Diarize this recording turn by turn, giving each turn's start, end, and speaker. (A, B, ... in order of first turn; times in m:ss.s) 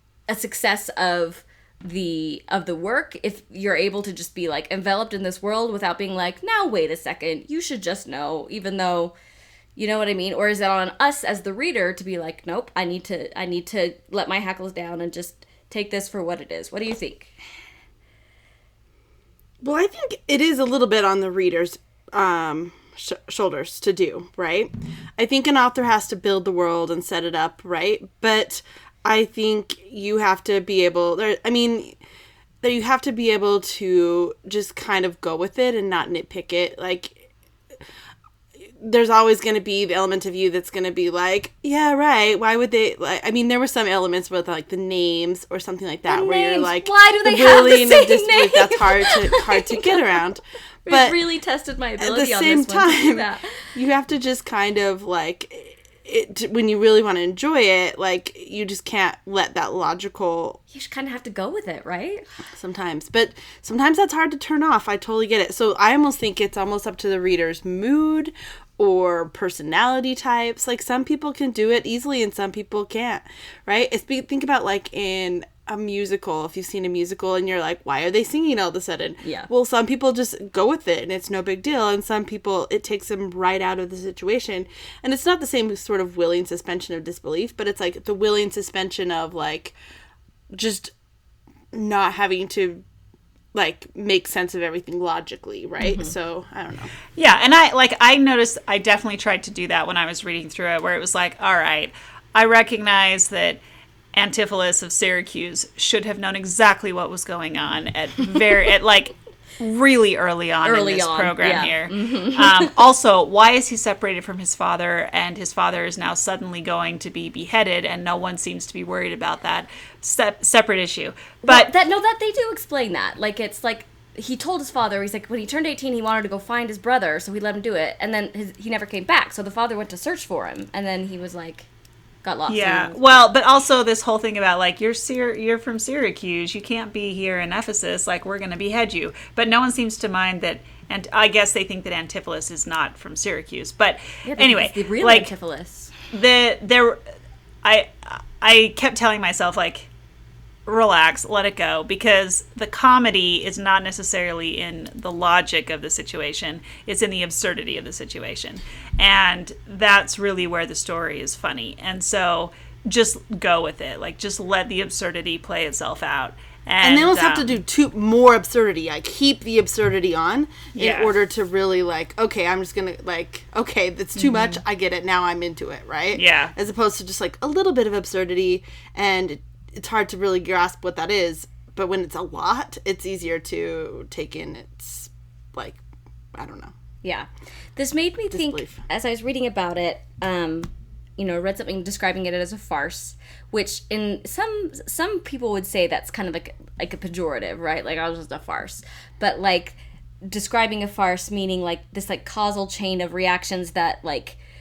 0:00.3-0:09.2 A
0:09.8-0:17.4 A
0:19.6-0:32.0 B
0:32.6-0:37.3 B
0:38.8-0:51.2 B
0:46.1-0:50.2 A
0:50.8-0:53.7 A
0:52.0-1:00.6 B
1:00.7-1:02.3 A
1:02.5-1:29.8 B
1:19.2-1:19.5 A
1:30.5-1:30.9 B
1:31.7-1:32.8 B
1:33.5-1:36.9 B
1:35.8-1:36.1 A
1:37.2-1:43.6 C
1:44.1-2:01.7 C
1:50.6-1:52.7 A
2:01.4-2:11.7 A
2:12.2-2:13.2 A
2:12.5-2:25.3 C
2:24.2-2:25.9 A
2:26.1-2:27.0 C
2:27.6-2:29.9 C
2:30.7-2:47.6 C
2:46.8-3:05.8 B
2:50.8-2:51.1 C
2:56.2-2:56.5 C
3:06.3-3:06.7 B
3:07.0-3:24.4 A
3:08.3-3:08.8 B